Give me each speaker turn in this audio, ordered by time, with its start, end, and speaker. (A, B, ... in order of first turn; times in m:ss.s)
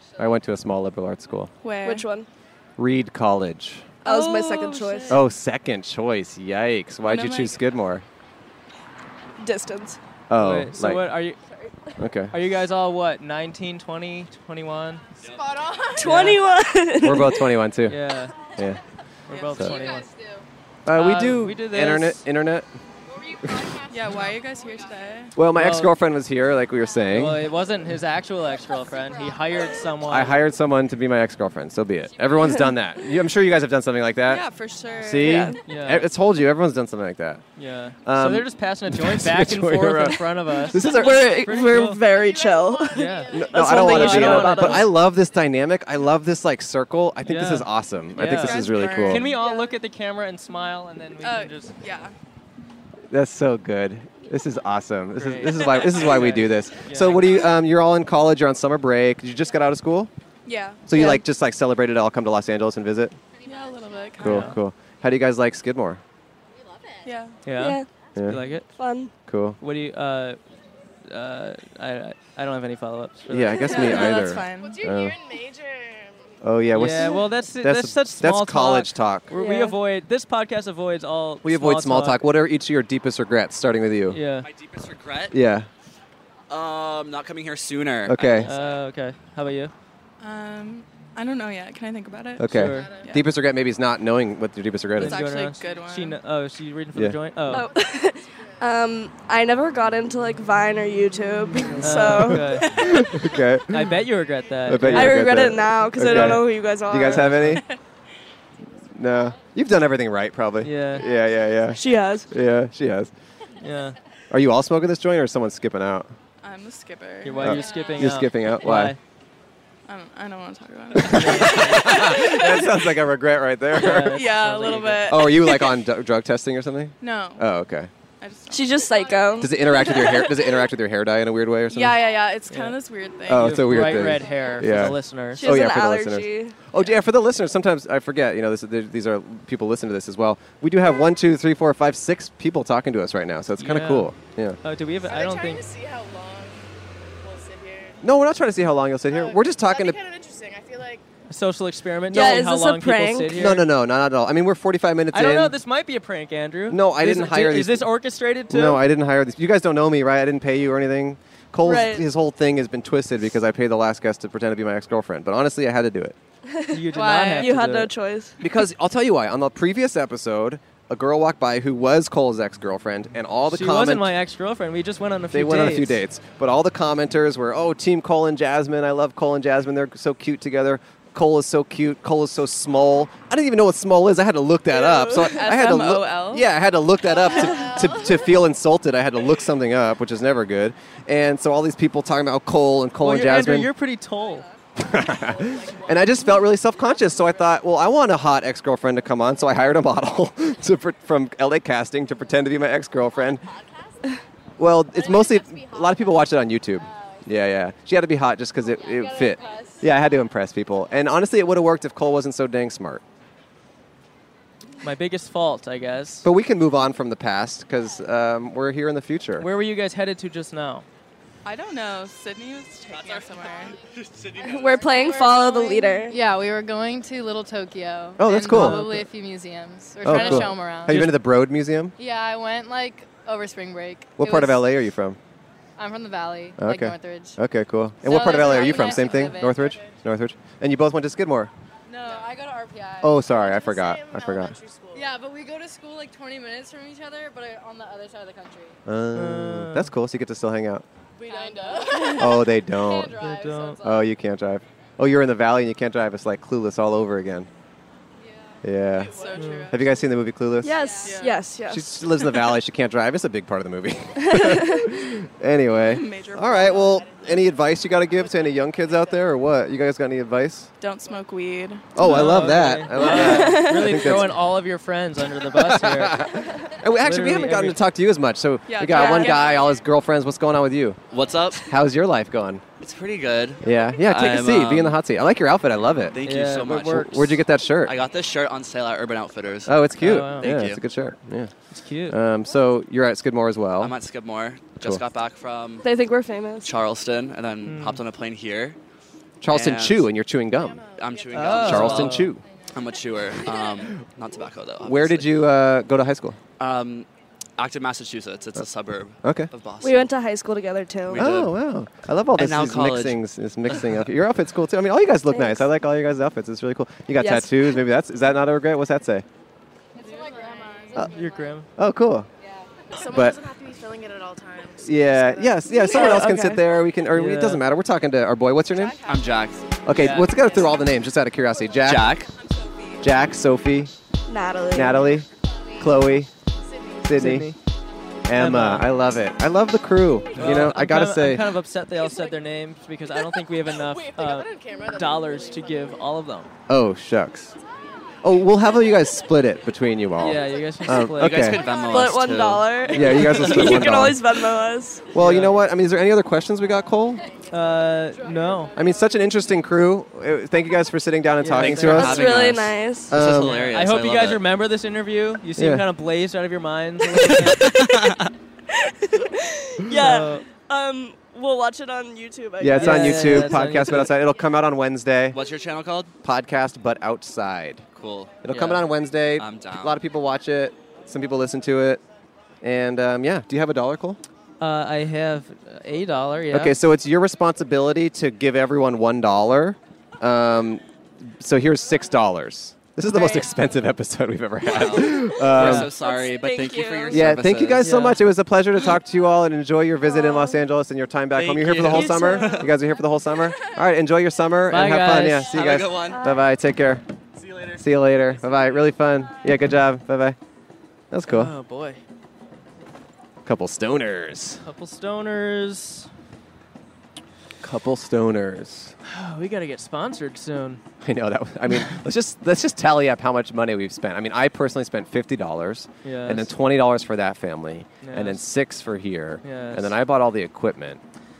0:00.2-0:01.5 A
0:01.6-0:02.1 B
0:01.8-0:02.3 C
0:02.8-0:04.0 A
0:04.0-0:05.2 B
0:04.0-0:05.2 C
0:05.1-0:08.0 A
0:07.0-0:07.6 B
0:09.4-0:10.0 C
0:10.3-0:11.1 A
0:10.4-0:11.4 D
0:12.0-0:12.4 A
0:12.3-0:15.0 D
0:15.2-0:15.5 E
0:15.2-0:16.3 F
0:16.0-0:17.5 C
0:16.0-0:16.4 D
0:17.0-0:18.0 A
0:17.8-0:18.3 D
0:18.6-0:18.8 A
0:19.3-0:19.7 B
0:19.3-0:20.1 D
0:19.6-0:20.2 F
0:20.8-0:22.7 A
0:20.9-0:22.2 D
0:23.1-0:24.9 F
0:23.4-0:23.7 A
0:23.9-0:25.3 B
0:25.4-0:27.5 A
0:25.5-0:25.9 D
0:27.1-0:30.4 D
0:28.9-0:29.8 F
0:30.0-0:34.5 A
0:34.3-0:35.6 B
0:35.0-0:37.4 A
0:35.2-0:35.5 C
0:35.2-0:36.1 D
0:37.6-0:42.0 D
0:38.0-0:41.3 A
0:40.8-0:44.9 C
0:42.0-0:43.8 F
0:42.9-0:44.9 D
0:43.3-0:49.3 A
0:47.2-0:51.7 D
0:48.2-0:49.6 B
0:51.2-0:52.1 B
0:53.1-1:00.1 A
0:55.2-0:57.5 D
1:00.4-1:00.8 B
1:00.9-1:03.2 A
1:00.9-1:01.2 C
1:03.4-1:04.6 B
1:03.4-1:03.7 F
1:04.2-1:04.6 D
1:04.2-1:06.0 A
1:07.0-1:07.4 B
1:07.4-1:08.7 D
1:07.5-1:07.9 C
1:08.1-1:08.4 A
1:08.7-1:09.1 C
1:09.2-1:09.6 A
1:09.6-1:10.4 D
1:11.1-1:13.9 D
1:13.3-1:15.2 A
1:13.7-1:14.8 B
1:14.6-1:16.3 F
1:16.4-1:19.3 A
1:16.7-1:22.2 D
1:19.3-1:19.8 C
1:21.4-1:24.2 A
1:24.1-1:24.5 D
1:24.4-1:25.4 E
1:25.3-1:25.7 A
1:26.5-1:28.8 E
1:28.0-1:28.5 A
1:28.4-1:29.7 D
1:30.2-1:33.3 B
1:32.4-1:35.3 A
1:32.4-1:32.9 D
1:35.0-1:36.2 B
1:35.0-1:37.7 D
1:37.5-1:42.6 C
1:41.8-1:43.1 D
1:42.1-1:44.0 A
1:42.7-1:43.2 B
1:43.7-1:45.3 D
1:44.6-1:47.6 A
1:44.9-1:47.2 C
1:45.9-1:47.6 D
1:48.9-1:53.1 A
1:50.6-1:51.1 D
1:51.7-1:52.3 C
1:53.6-1:54.0 D
1:54.3-1:56.1 A
1:56.4-1:57.7 B
1:57.2-1:59.0 D
1:57.4-1:58.9 A
1:59.8-2:02.9 B
2:00.9-2:04.3 A
2:01.0-2:02.1 D
2:03.7-2:05.1 D
2:03.9-2:05.8 B
2:05.0-2:07.9 A
2:07.0-2:07.4 B
2:08.2-2:09.2 B
2:08.5-2:10.2 C
2:09.4-2:12.0 A
2:09.7-2:10.6 B
2:11.7-2:14.0 B
2:12.5-2:12.8 D
2:13.3-2:24.6 A
2:13.3-2:15.5 D
2:15.3-2:16.6 C
2:23.6-2:25.6 D
2:25.0-2:26.7 F
2:27.2-2:28.1 F
2:28.0-2:30.0 A
2:29.0-2:31.0 F
2:31.3-2:33.7 D
2:32.1-2:33.5 C
2:33.3-2:35.6 A
2:35.1-2:38.8 D
2:36.7-2:37.9 A
2:38.5-2:46.2 A
2:41.6-2:42.1 C
2:46.7-2:47.9 D
2:46.8-2:48.4 C
2:46.9-2:47.5 B
2:48.4-2:54.1 A
2:53.5-2:56.0 D
2:55.3-3:13.7 A
3:04.7-3:06.4 B
3:07.1-3:08.3 F
3:13.0-3:14.5 D
3:14.2-3:17.6 F
3:14.8-3:23.5 A
3:23.1-3:23.9 F
3:24.6-3:33.0 A
3:24.8-3:27.5 F
3:28.6-3:30.1 F
3:34.8-3:36.3 D
3:36.2-3:39.5 A
3:39.4-3:40.8 D
3:41.4-3:43.8 B
3:42.9-3:45.0 E
3:44.4-3:46.2 C
3:44.6-3:45.2 F
3:45.0-3:51.1 G
3:48.2-3:49.0 A
3:48.3-3:49.0 D
3:50.0-3:51.9 A
3:50.1-3:51.2 D
3:52.0-3:54.7 G
3:54.2-3:55.2 A
3:55.8-3:57.4 G
3:56.6-4:01.5 A
3:58.0-3:59.8 G
3:58.1-3:59.9 F
4:01.9-4:05.2 F
4:02.0-4:03.2 G
4:03.0-4:04.6 A
4:04.9-4:08.8 G
4:08.8-4:10.8 A
4:09.1-4:09.9 D
4:11.2-4:13.9 F
4:11.2-4:14.0 G
4:12.2-4:13.2 A
4:13.2-4:13.8 D
4:13.8-4:17.5 A
4:18.2-4:19.6 F
4:18.6-4:20.8 A
4:19.1-4:20.0 B
4:19.3-4:19.7 D
4:20.6-4:22.6 C
4:20.7-4:21.3 F
4:21.0-4:21.4 B
4:21.6-4:30.7 A
4:24.2-4:24.8 C
4:25.8-4:27.1 B
4:27.0-4:29.4 F
4:30.8-4:31.9 B
4:31.9-4:34.4 A
4:32.0-4:36.3 D
4:33.0-4:34.2 C
4:35.4-4:41.0 A
4:37.0-4:37.8 D
4:38.7-4:39.7 B
4:39.0-4:39.7 F
4:41.1-4:41.7 E
4:41.2-4:41.4 F
4:41.5-4:42.6 A
4:42.8-4:45.0 E
4:43.6-4:48.0 A
4:46.1-4:51.1 E
4:46.2-4:47.3 D
4:49.6-4:51.5 A
4:50.0-4:50.5 D
4:51.7-4:52.2 D
4:52.1-4:54.0 A
4:53.8-4:55.8 E
4:55.8-4:56.7 C
4:56.6-4:58.8 E
4:57.6-4:58.0 D
4:59.4-5:00.9 A
4:59.5-5:00.1 E
5:00.5-5:01.6 F
5:00.9-5:05.4 E
5:01.3-5:02.3 D
5:01.5-5:02.4 A
5:02.4-5:03.0 G
5:04.8-5:06.4 A
5:06.6-5:10.1 E
5:09.2-5:09.5 A
5:09.8-5:11.2 C
5:11.1-5:11.6 E
5:11.1-5:19.2 A
5:12.4-5:13.2 E
5:15.3-5:15.6 C
5:17.2-5:17.8 C
5:20.0-5:21.6 F
5:20.0-5:21.2 G
5:21.0-5:21.7 D
5:21.8-5:22.3 A
5:22.5-5:25.7 F
5:23.0-5:24.1 B
5:23.0-5:23.4 A
5:24.8-5:29.0 A
5:24.9-5:26.1 B
5:25.8-5:26.7 C
5:27.1-5:27.6 D
5:28.7-5:29.5 F
5:29.0-5:29.6 E
5:29.8-5:32.2 A
5:29.9-5:30.4 D
5:30.0-5:30.9 F
5:31.8-5:32.3 E
5:33.0-5:33.9 A
5:34.3-5:35.2 C
5:34.7-5:35.3 A
5:35.8-5:36.3 A
5:35.8-5:37.0 F
5:37.0-5:37.5 A
5:37.1-5:37.6 D
5:38.2-5:41.6 A
5:38.3-5:38.9 D
5:40.3-5:46.5 D
5:42.0-5:42.3 F
5:43.6-5:46.0 F
5:46.7-5:47.5 A
5:48.2-5:51.7 A
5:48.4-5:49.0 F
5:50.2-5:51.5 D
5:51.1-5:53.7 E
5:51.5-5:52.1 F
5:51.9-5:55.1 C
5:52.9-5:54.2 A
5:53.1-5:53.8 D
5:55.1-5:57.2 A
5:55.1-5:55.6 D
5:57.5-5:58.7 D
5:57.9-5:59.1 F
5:58.7-6:03.7 A
6:01.4-6:02.3 D
6:01.5-6:04.4 E
6:02.0-6:03.1 C
6:03.4-6:07.8 D
6:05.6-6:05.9 A
6:07.3-6:08.3 E
6:09.2-6:13.6 C
6:09.9-6:10.4 D
6:12.6-6:15.4 A
6:12.8-6:14.1 D
6:15.3-6:16.1 E
6:16.2-6:17.8 A
6:17.9-6:18.4 E
6:18.4-6:22.0 A
6:18.5-6:18.8 D
6:19.3-6:20.0 E
6:22.6-6:24.2 A
6:24.6-6:26.8 D
6:26.5-6:35.9 A
6:34.6-6:37.9 E
6:35.5-6:35.9 D
6:36.0-6:37.1 B
6:36.0-6:37.2 C
6:37.1-6:47.0 A
6:37.8-6:38.2 D
6:41.3-6:42.8 E
6:41.9-6:42.5 D
6:44.7-6:45.5 D
6:45.4-6:46.2 E
6:47.4-6:48.9 E
6:47.7-6:50.4 A
6:51.1-6:51.5 A
6:51.3-6:52.0 D
6:53.4-6:54.6 A
6:54.6-6:56.1 D
6:57.6-6:58.9 A
6:59.0-7:00.8 D
7:01.0-7:11.0 A
7:06.0-7:06.5 D
7:08.0-7:08.4 D
7:09.4-7:09.9 D